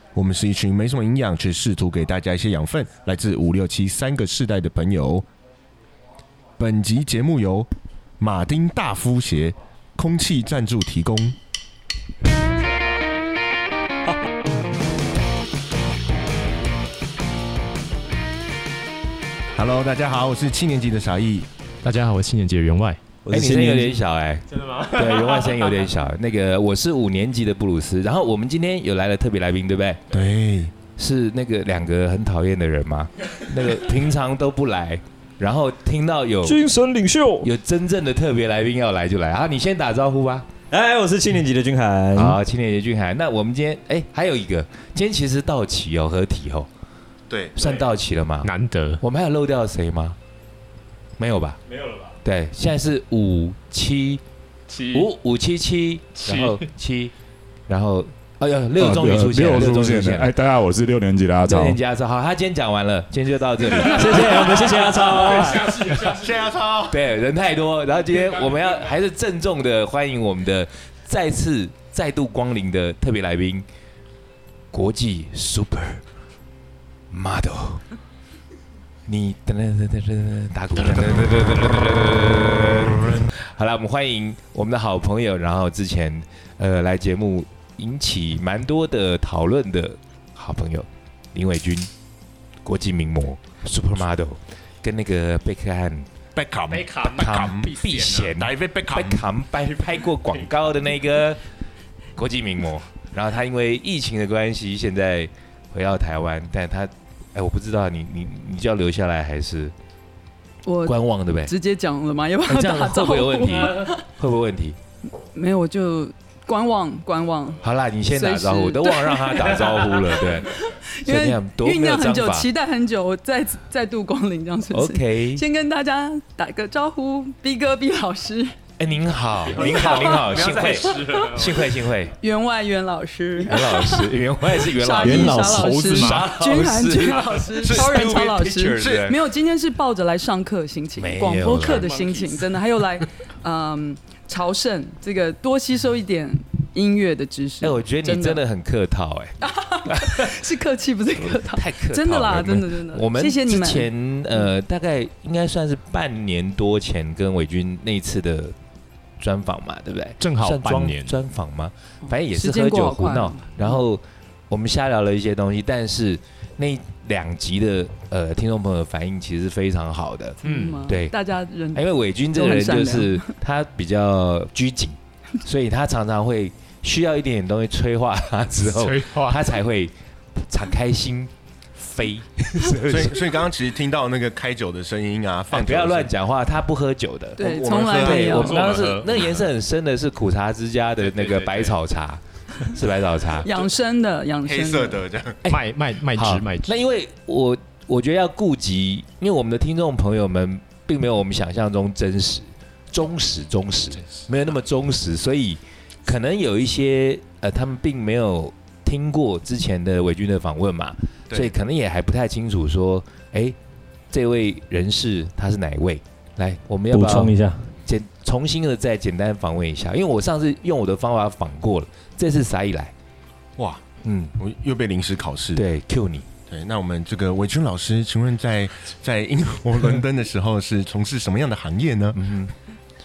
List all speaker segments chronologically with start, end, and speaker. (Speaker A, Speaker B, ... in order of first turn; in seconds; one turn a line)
Speaker A: 0.1-5.3
Speaker A: 6.6-7.7
Speaker A: 8.2-11.3
Speaker A: 19.6-21.5
Speaker B: 21.8-23.0
Speaker C: 23.2-24.0
Speaker D: 23.3-30.0
Speaker A: 30.1-30.7
Speaker D: 31.0-36.6
Speaker C: 36.4-37.5
Speaker D: 37.4-40.5
Speaker C: 40.7-42.4
Speaker D: 42.1-46.7
Speaker A: 47.3-47.6
Speaker D: 47.5-50.2
Speaker B: 48.4-49.0
Speaker D: 51.2-51.6
Speaker D: 52.2-54.2
Speaker B: 54.7-55.1
Speaker D: 54.8-57.1
Speaker B: 56.2-56.6
Speaker D: 57.7-60.5
Speaker E: 58.9-61.4
Speaker C: 60.9-61.7
Speaker D: 61.4-66.3
Speaker C: 64.1-65.7
Speaker A: 65.9-67.0
Speaker D: 66.9-73.7
Speaker D: 74.7-76.0
Speaker D: 77.1-77.8
Speaker D: 79.1-91.9
Speaker D: 92.6-96.1
Speaker A: 96.3-97.7
Speaker B: 96.7-98.3
Speaker D: 97.0-101.5
Speaker A: 98.3-99.2
Speaker D: 102.2-109.7
Speaker F: 110.7-114.0
Speaker D: 110.9-111.5
Speaker D: 112.5-114.8
Speaker F: 115.2-128.6
Speaker D: 117.6-122.5
Speaker D: 124.7-125.4
Speaker D: 128.8-132.2
Speaker F: 129.5-148.4
Speaker B: 129.7-131.3
Speaker D: 133.4-139.2
Speaker C: 135.0-136.1
Speaker B: 135.4-136.3
Speaker A: 137.6-138.1
Speaker D: 141.0-141.9
Speaker B: 141.8-142.4
Speaker D: 147.6-150.4
Speaker F: 149.4-153.9
Speaker D: 151.2-158.6
Speaker D: 159.2-171.1
Speaker B: 160.2-161.2
Speaker F: 162.1-163.8
Speaker F: 170.4-173.3
Speaker B: 170.4-170.8
Speaker D: 171.7-183.5
Speaker B: 178.6-179.4
Speaker A: 182.8-186.1
Speaker D: 185.5-193.6
Speaker F: 187.4-188.7
Speaker A: 187.4-188.5
Speaker B: 188.5-189.4
Speaker B: 191.1-191.8
Speaker F: 193.4-195.0
Speaker A: 194.4-195.4
Speaker D: 195.4-213.6
Speaker B: 195.5-196.8
Speaker D: 214.1-222.9
Speaker C: 216.9-217.7
Speaker A: 223.6-223.8
Speaker D: 224.0-224.3
Speaker A: 224.4-225.6
Speaker D: 225.6-226.3
Speaker A: 226.5-232.2
Speaker D: 232.1-232.5